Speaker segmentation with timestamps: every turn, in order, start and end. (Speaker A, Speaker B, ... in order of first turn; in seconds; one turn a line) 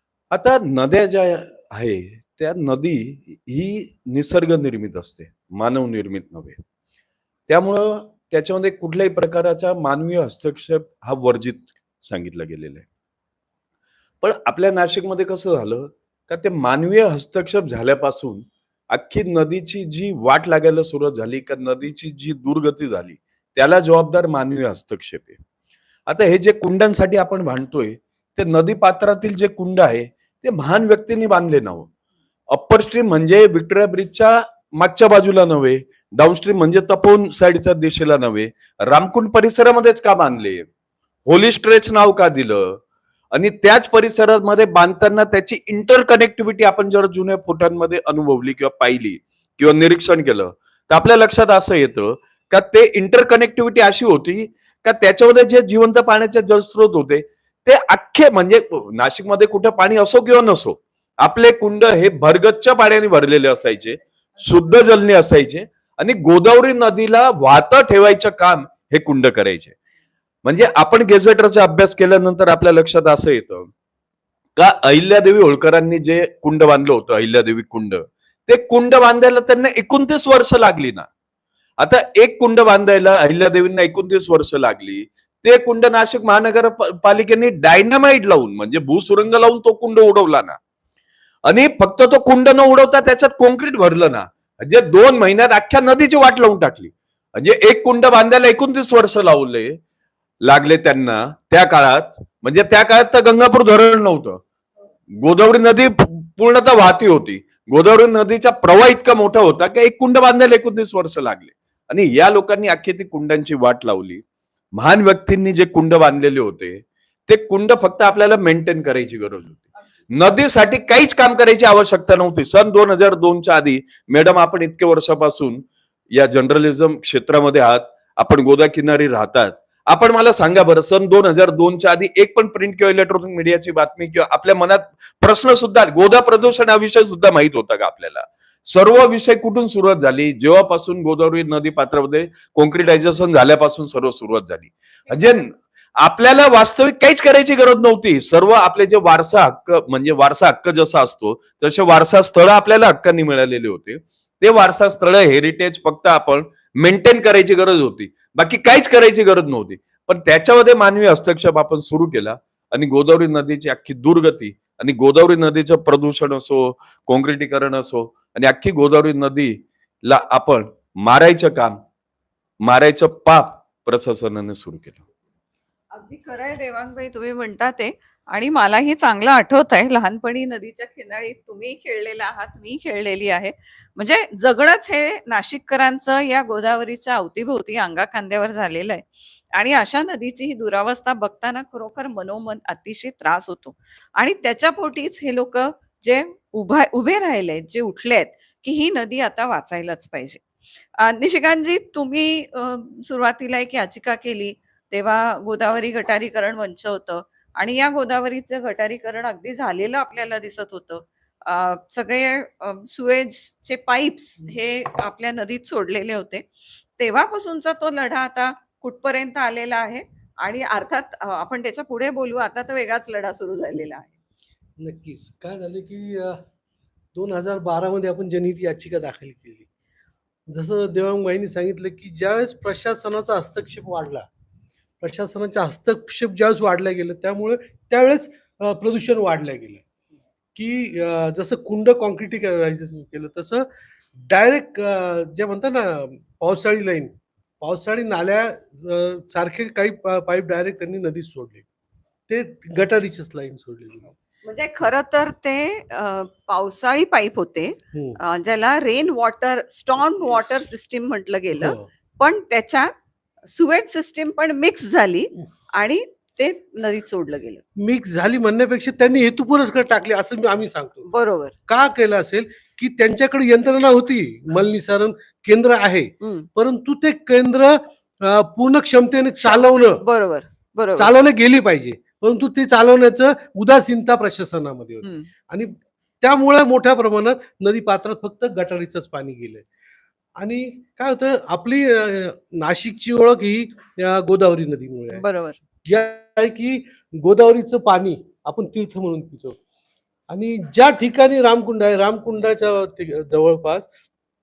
Speaker A: 0.3-6.6
Speaker A: 7.5-12.9
Speaker A: 14.2-25.4
Speaker A: 26.1-31.9
Speaker A: 32.5-40.6
Speaker A: 41.3-42.8
Speaker A: 43.3-69.8
Speaker A: 70.5-73.7
Speaker A: 74.6-81.1
Speaker A: 81.8-90.6
Speaker A: 91.5-99.8
Speaker A: 100.4-104.4
Speaker A: 105.2-114.2
Speaker A: 114.8-171.8
Speaker A: 172.6-175.0
Speaker B: 175.9-200.4
Speaker B: 201.0-216.5
Speaker B: 217.0-224.1
Speaker C: 224.8-226.4
Speaker C: 227.2-229.7
Speaker C: 230.5-234.3
Speaker C: 235.0-239.8
Speaker C: 240.6-243.7
Speaker C: 244.3-251.7
Speaker C: 252.3-254.2
Speaker B: 254.4-262.9
Speaker C: 257.9-258.2
Speaker C: 261.5-261.9
Speaker B: 263.5-267.6
Speaker C: 267.8-271.1
Speaker B: 271.1-271.5
Speaker C: 271.7-280.0
Speaker B: 276.2-276.5
Speaker B: 279.4-281.1
Speaker C: 281.0-289.7
Speaker B: 285.0-285.3
Speaker C: 290.4-295.2
Speaker B: 295.1-295.6
Speaker C: 295.9-299.6
Speaker C: 300.3-303.9